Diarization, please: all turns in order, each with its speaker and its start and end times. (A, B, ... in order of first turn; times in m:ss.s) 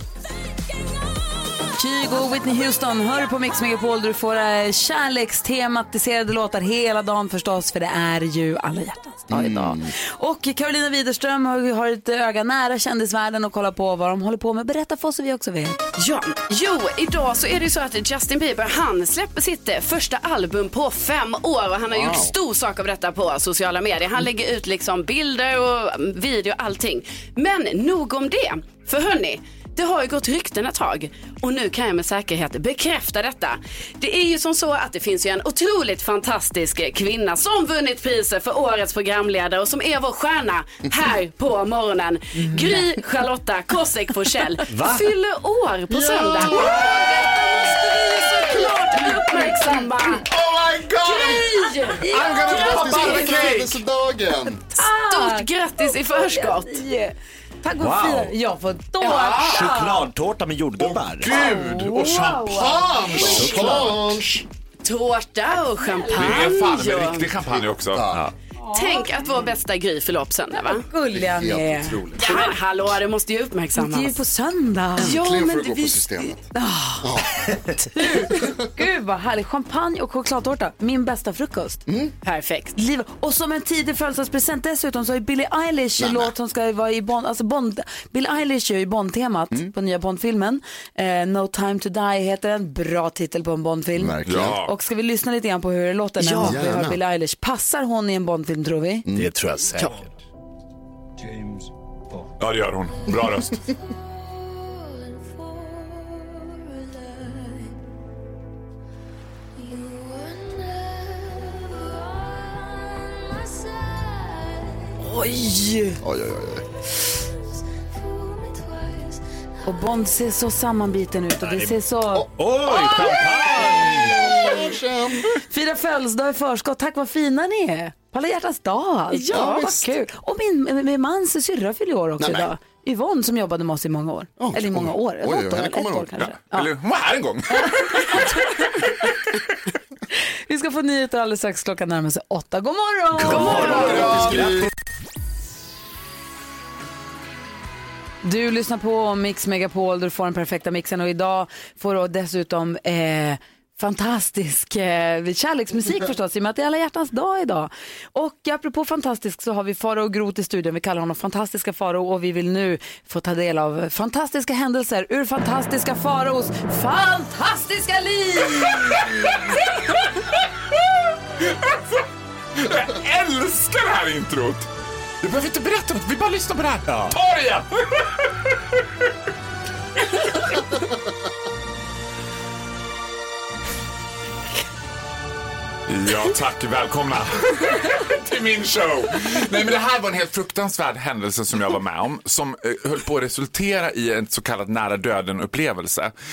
0:01.7-0:15.8 A
0:09.3-0:09.9 B
0:16.0-0:47.0 C
0:21.9-0:22.3 B
0:44.7-0:45.1 D
0:46.4-0:49.9 A
0:46.8-0:47.1 E
0:47.8-0:50.3 C
0:50.3-0:51.3 E
0:51.0-0:51.4 B
0:51.0-0:52.0 C
0:51.2-0:53.5 A
0:52.1-0:53.8 E
0:52.5-0:54.6 B
0:54.6-1:00.0 A
0:54.9-0:56.8 C
0:57.8-0:58.3 D
0:59.1-0:59.3 C
0:59.1-0:59.7 E
0:59.4-1:01.3 D
1:00.8-1:04.2 E
1:01.3-1:03.5 A
1:02.9-1:04.4 B
1:03.3-1:04.0 D
1:04.8-1:07.3 C
1:06.1-1:08.3 E
1:07.8-1:08.2 B
1:08.7-1:10.8 C
1:08.7-1:09.0 A
1:10.7-1:12.5 A
1:11.1-1:12.3 B
1:12.2-1:14.2 C
1:13.7-1:15.2 A
1:15.0-1:16.5 B
1:15.0-1:16.0 C
1:16.2-1:17.1 A
1:17.0-1:18.6 B
1:17.9-1:21.8 A
1:21.9-1:22.1 B
1:22.2-1:22.7 C
1:22.8-1:39.0 A
1:26.0-1:26.3 B
1:34.0-1:34.6 B
1:34.2-1:34.7 E
1:36.4-1:37.0 B
1:39.1-1:40.1 D
1:42.4-1:43.6 E
1:55.0-1:56.0 A
1:56.0-1:56.6 B
1:59.6-2:04.6 A
2:01.4-2:01.7 D
2:02.4-2:04.2 D
2:03.5-2:05.3 B
2:05.3-2:16.7 A
2:09.1-2:09.7 C
2:09.3-2:09.9 B
2:12.2-2:12.5 B
2:14.4-2:16.2 B
2:16.2-2:19.2 E
2:17.6-2:18.7 A
2:20.5-2:24.3 A
2:23.1-2:24.7 D
2:23.4-2:24.7 B
2:23.8-2:24.4 E
2:28.2-2:49.3 A
2:48.6-2:52.0 E
2:52.6-2:54.7 E
2:55.2-2:58.8 E
2:56.9-2:57.2 D
3:05.9-3:16.1 E